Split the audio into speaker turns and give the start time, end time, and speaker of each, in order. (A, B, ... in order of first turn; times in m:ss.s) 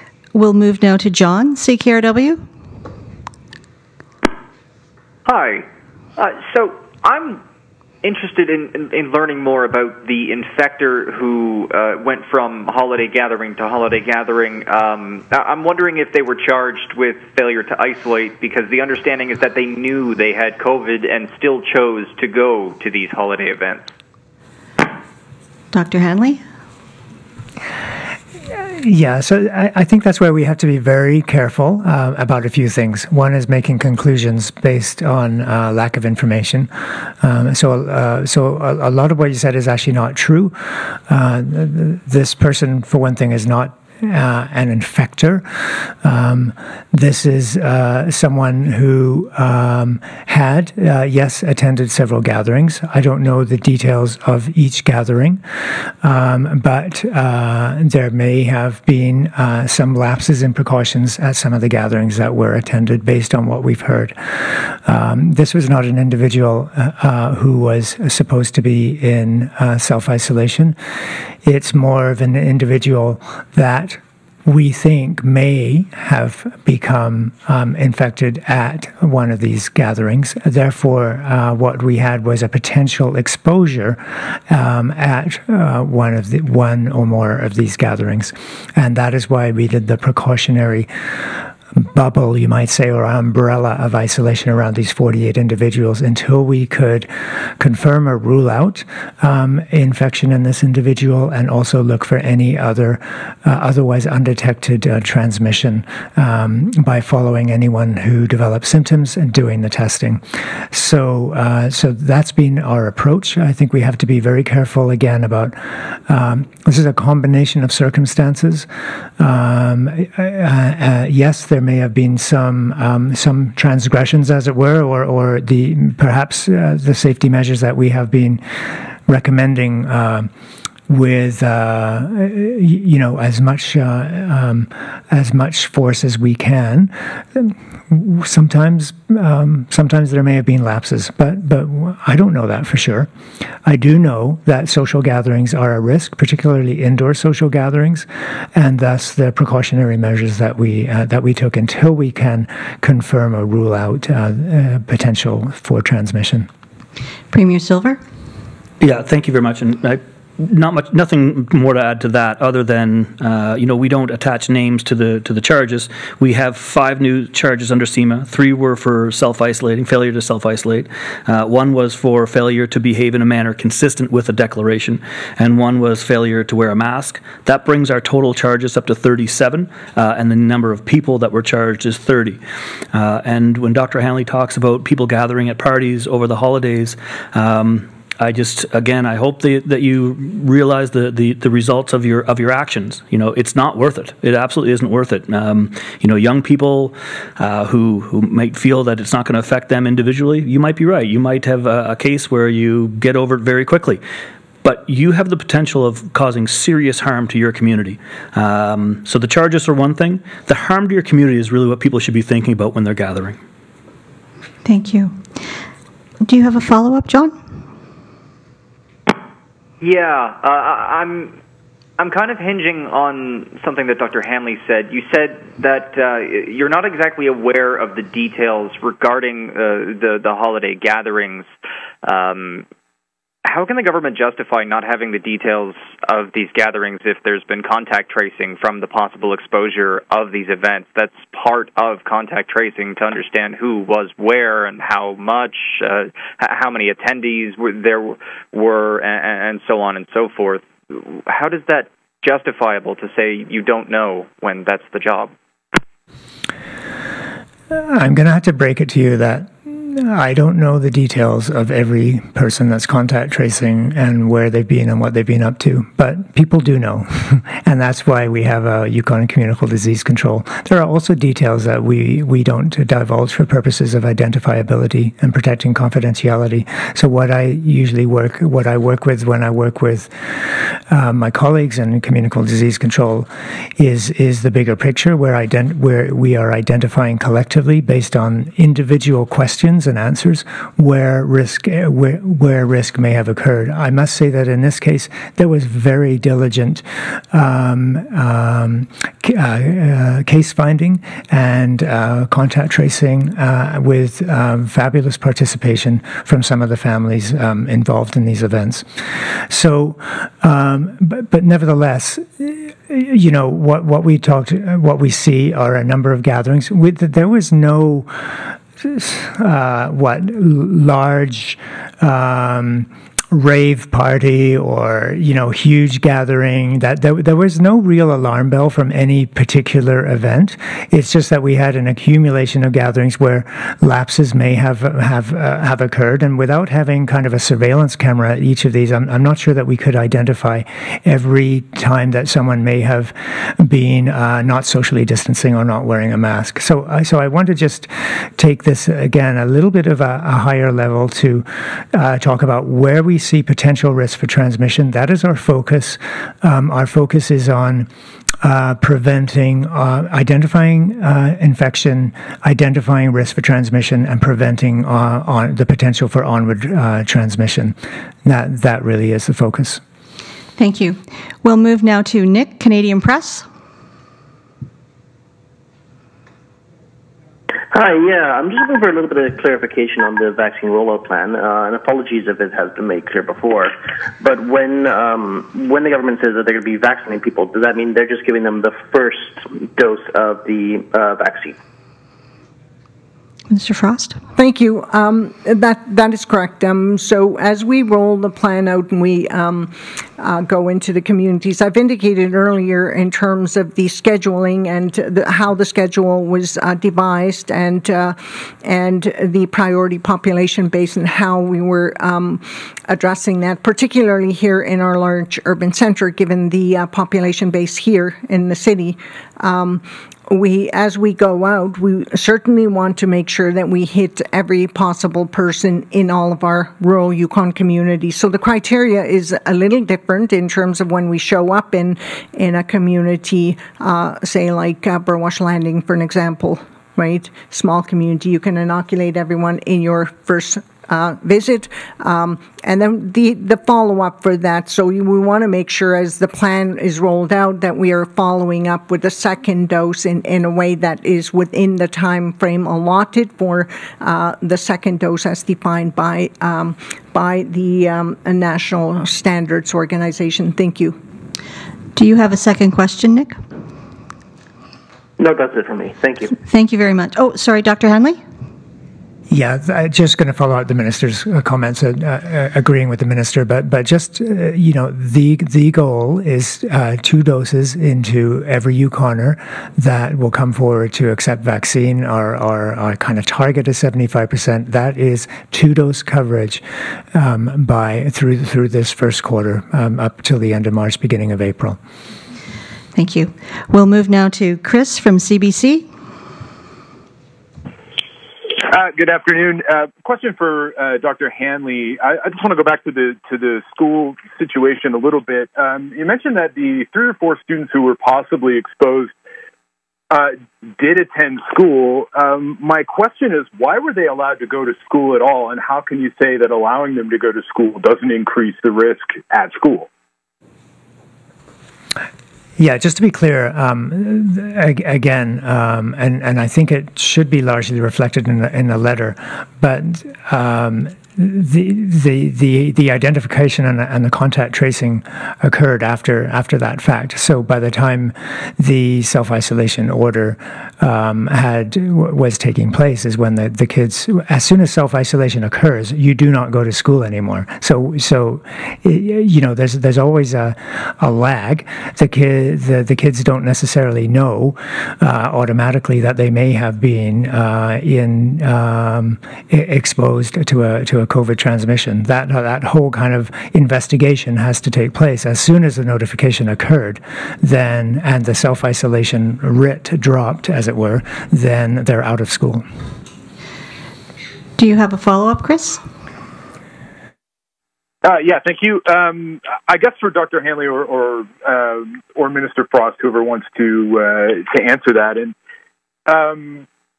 0:00.3-0:02.4 A
0:05.2-0:07.4 B
0:08.0-0:23.9 B
0:25.7-0:26.4 A
0:28.6-0:55.4 C
0:56.0-1:10.8 C
1:11.4-2:10.3 C
2:10.9-2:23.1 C
2:23.6-2:36.5 C
2:37.3-2:38.0 A
2:38.8-3:02.4 D
3:02.9-3:24.0 D
3:24.6-3:33.4 D
3:34.6-3:35.4 A
3:36.2-3:37.4 A
3:39.8-3:41.3 B
3:42.0-3:51.5 B
3:52.0-3:52.6 B
3:53.4-4:15.3 B
4:17.7-5:57.9 C
5:58.4-6:09.8 C
6:10.6-6:13.4 A
6:17.7-6:31.6 E
6:33.5-6:34.2 A
6:34.4-7:41.0 F
7:42.0-7:43.4 A
7:45.2-7:46.3 E
7:46.4-7:48.2 A
7:49.3-8:11.8 C
8:12.9-8:15.9 A
8:18.6-8:29.1 G
8:30.1-8:39.9 G
8:42.6-9:32.6 C
9:34.6-9:35.8 A
9:38.0-9:45.3 G
9:46.1-9:46.6 G